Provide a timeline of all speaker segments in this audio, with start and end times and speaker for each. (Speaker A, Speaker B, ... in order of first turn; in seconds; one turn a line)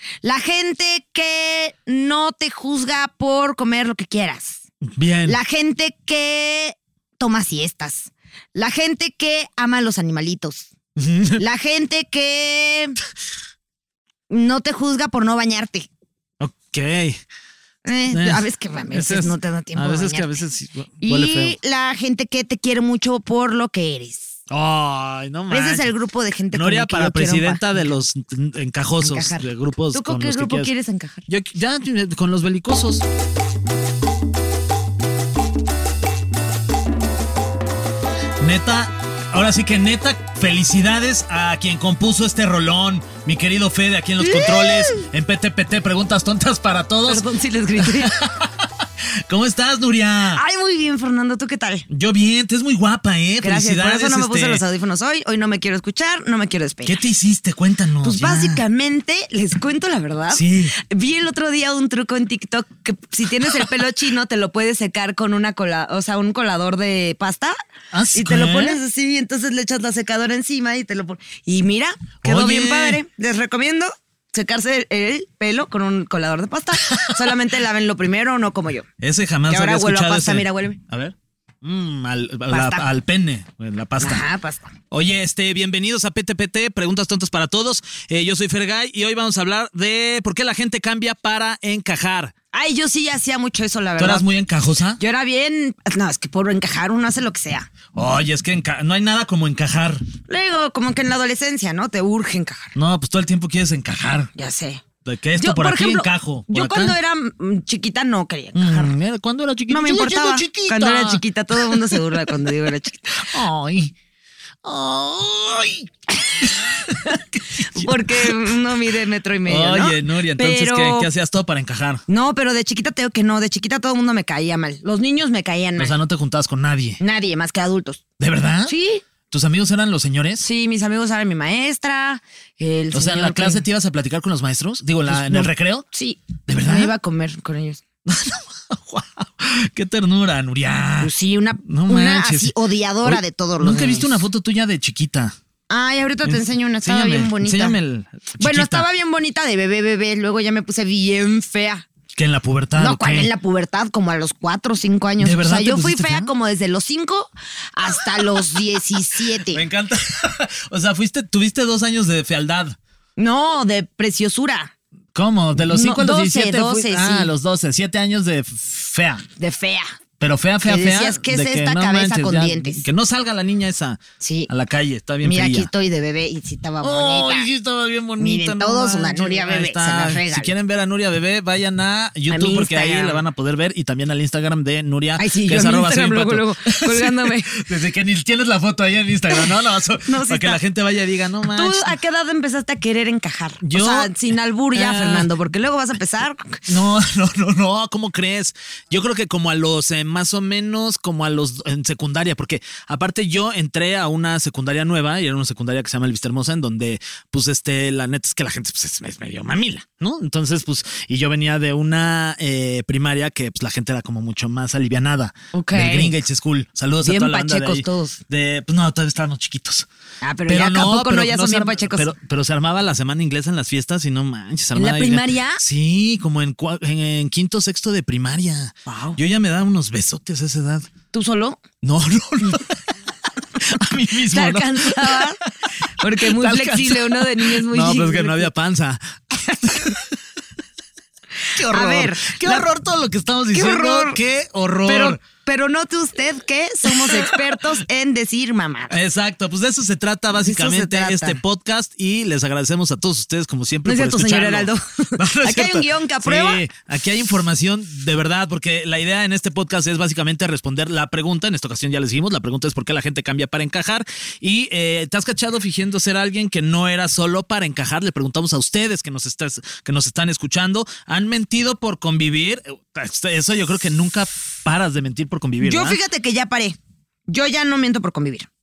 Speaker A: 0.2-4.6
Speaker B: 4.8-5.4
Speaker A: 5.3-10.7
Speaker B: 11.0-11.4
Speaker A: 11.4-13.0
Speaker A: 14.3-15.9
Speaker B: 16.4-17.2
Speaker A: 17.9-20.4
Speaker B: 18.1-21.6
Speaker A: 21.0-24.4
Speaker B: 24.5-25.9
Speaker A: 25.5-28.0
Speaker B: 26.5-30.7
Speaker A: 29.0-31.3
Speaker B: 31.3-33.0
Speaker B: 38.4-47.2
Speaker A: 44.2-45.0
Speaker A: 47.0-48.2
Speaker B: 47.8-48.7
Speaker B: 49.3-50.4
Speaker A: 50.3-51.9
Speaker B: 51.9-54.6
Speaker A: 53.4-57.0
Speaker B: 56.9-58.6
Speaker A: 58.0-67.6
Speaker B: 60.3-60.7
Speaker B: 67.9-68.8
Speaker A: 68.1-78.9
Speaker B: 72.2-73.0
Speaker B: 76.9-77.3
Speaker B: 79.0-84.2
Speaker A: 79.5-80.8
Speaker A: 82.5-82.9
Speaker A: 84.0-84.7
Speaker B: 84.9-92.3
Speaker A: 92.5-94.3
Speaker B: 94.0-95.0
Speaker A: 95.0-97.7
Speaker B: 97.9-100.0
Speaker A: 100.3-102.8
Speaker B: 102.8-104.3
Speaker A: 104.3-104.8
Speaker B: 105.0-107.0
Speaker A: 105.4-109.0
Speaker B: 108.5-112.2
Speaker A: 109.7-113.3
Speaker B: 113.2-113.9
Speaker B: 114.6-115.9
Speaker A: 116.2-116.5
Speaker B: 116.4-118.4
Speaker A: 117.0-121.1
Speaker B: 119.5-122.0
Speaker A: 122.1-126.0
Speaker B: 125.8-127.0
Speaker A: 127.0-128.0
Speaker B: 128.2-128.7
Speaker A: 128.7-129.0
Speaker B: 129.3-130.4
Speaker A: 130.4-133.6
Speaker B: 132.9-135.9
Speaker A: 135.1-137.8
Speaker B: 136.5-136.9
Speaker B: 138.1-141.1
Speaker A: 141.0-144.1
Speaker B: 141.7-145.4
Speaker A: 145.7-147.8
Speaker B: 146.2-148.9
Speaker A: 148.4-151.9
Speaker B: 152.1-153.3
Speaker A: 152.8-159.7
Speaker B: 155.2-156.3
Speaker B: 159.5-162.8
Speaker A: 163.2-164.7
Speaker B: 165.2-169.3
Speaker A: 165.6-167.3
Speaker A: 169.4-169.9
Speaker B: 170.2-175.7
Speaker A: 170.6-172.8
Speaker A: 174.2-174.5
Speaker A: 175.2-177.5
Speaker B: 176.8-191.9
Speaker A: 178.2-180.5
Speaker A: 182.3-183.2
Speaker A: 185.2-187.6
Speaker A: 190.0-190.6
Speaker A: 191.5-196.7
Speaker B: 193.6-194.1
Speaker B: 194.7-195.3
Speaker B: 196.7-219.9
Speaker A: 215.5-216.2
Speaker A: 217.0-218.2
Speaker A: 220.2-222.1
Speaker B: 220.5-230.9
Speaker A: 224.8-225.6
Speaker A: 228.9-229.2
Speaker A: 231.1-231.6
Speaker B: 231.8-232.8
Speaker B: 233.6-235.3
Speaker A: 234.3-235.4
Speaker A: 236.0-238.5
Speaker B: 236.2-240.2
Speaker A: 241.5-242.7
Speaker B: 241.6-245.2
Speaker A: 243.5-244.2
Speaker A: 244.9-249.0
Speaker B: 246.9-247.4
Speaker B: 248.9-276.0
Speaker A: 250.4-251.4
Speaker A: 253.8-256.6
Speaker A: 275.6-276.8
Speaker A: 277.3-278.5